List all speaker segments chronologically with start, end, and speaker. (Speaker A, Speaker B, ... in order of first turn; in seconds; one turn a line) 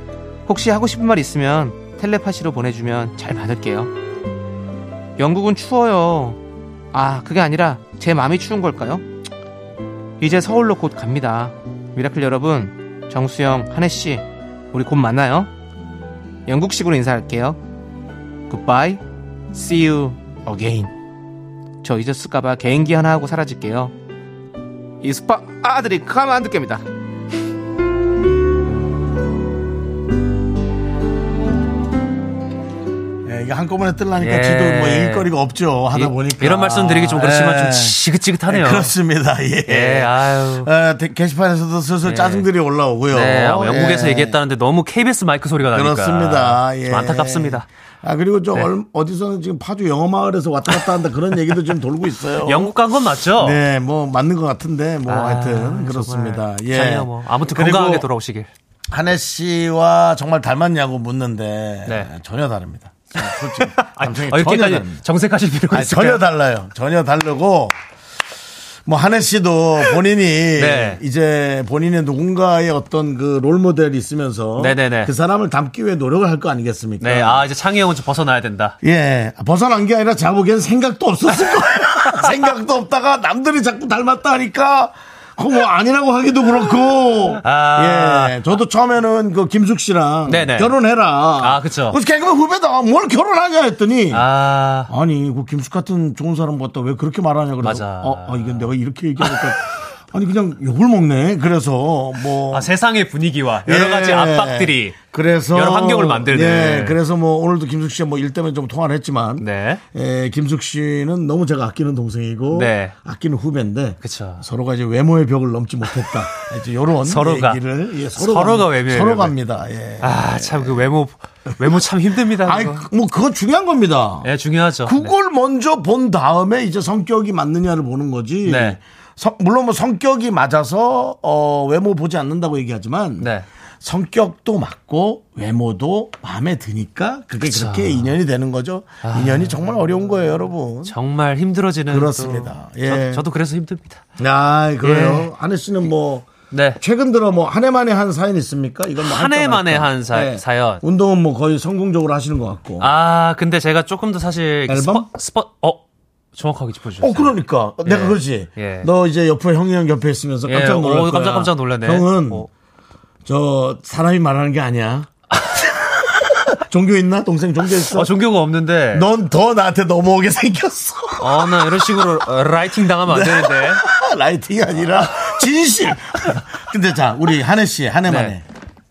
Speaker A: 0.5-3.9
Speaker A: 5.2-6.4
Speaker A: 6.9-9.0
Speaker A: 10.2-15.5
Speaker A: 16.5-17.6
Speaker A: 18.5-19.0
Speaker A: 19.5-20.9
Speaker A: 21.8-23.9
Speaker A: 25.0-26.8
Speaker B: 33.2-44.4
Speaker C: 34.2-35.3
Speaker C: 35.9-38.9
Speaker C: 39.7-40.7
Speaker C: 42.0-42.5
Speaker C: 43.1-47.7
Speaker B: 45.7-52.7
Speaker C: 52.4-53.6
Speaker B: 53.4-58.1
Speaker C: 55.1-58.5
Speaker B: 58.9-65.0
Speaker C: 63.2-66.2
Speaker B: 65.7-67.7
Speaker B: 68.8-77.4
Speaker C: 70.6-71.0
Speaker C: 74.6-75.1
Speaker C: 77.0-78.8
Speaker B: 78.8-94.2
Speaker C: 87.4-88.3
Speaker C: 90.3-90.7
Speaker C: 91.4-92.0
Speaker C: 94.1-94.9
Speaker B: 94.9-102.7
Speaker C: 97.6-98.7
Speaker C: 99.2-99.5
Speaker C: 102.5-105.0
Speaker B: 103.6-120.8
Speaker C: 105.5-107.0
Speaker C: 109.4-109.8
Speaker C: 112.5-112.9
Speaker C: 114.0-114.4
Speaker C: 117.0-117.6
Speaker C: 118.2-119.3
Speaker C: 120.0-122.8
Speaker B: 122.4-124.3
Speaker C: 124.2-125.1
Speaker B: 124.8-133.3
Speaker C: 128.4-128.8
Speaker C: 133.2-133.4
Speaker B: 133.8-140.9
Speaker C: 137.4-138.1
Speaker C: 139.0-139.6
Speaker C: 140.8-144.0
Speaker B: 141.9-143.2
Speaker B: 144.2-152.9
Speaker C: 144.8-145.3
Speaker C: 146.5-146.8
Speaker C: 149.0-150.8
Speaker C: 152.8-155.8
Speaker B: 154.7-155.1
Speaker C: 156.3-158.9
Speaker B: 157.0-162.5
Speaker C: 160.4-162.5
Speaker B: 163.2-168.1
Speaker C: 167.9-169.1
Speaker B: 168.9-172.1
Speaker C: 171.2-173.8
Speaker B: 173.1-178.4
Speaker C: 178.1-178.4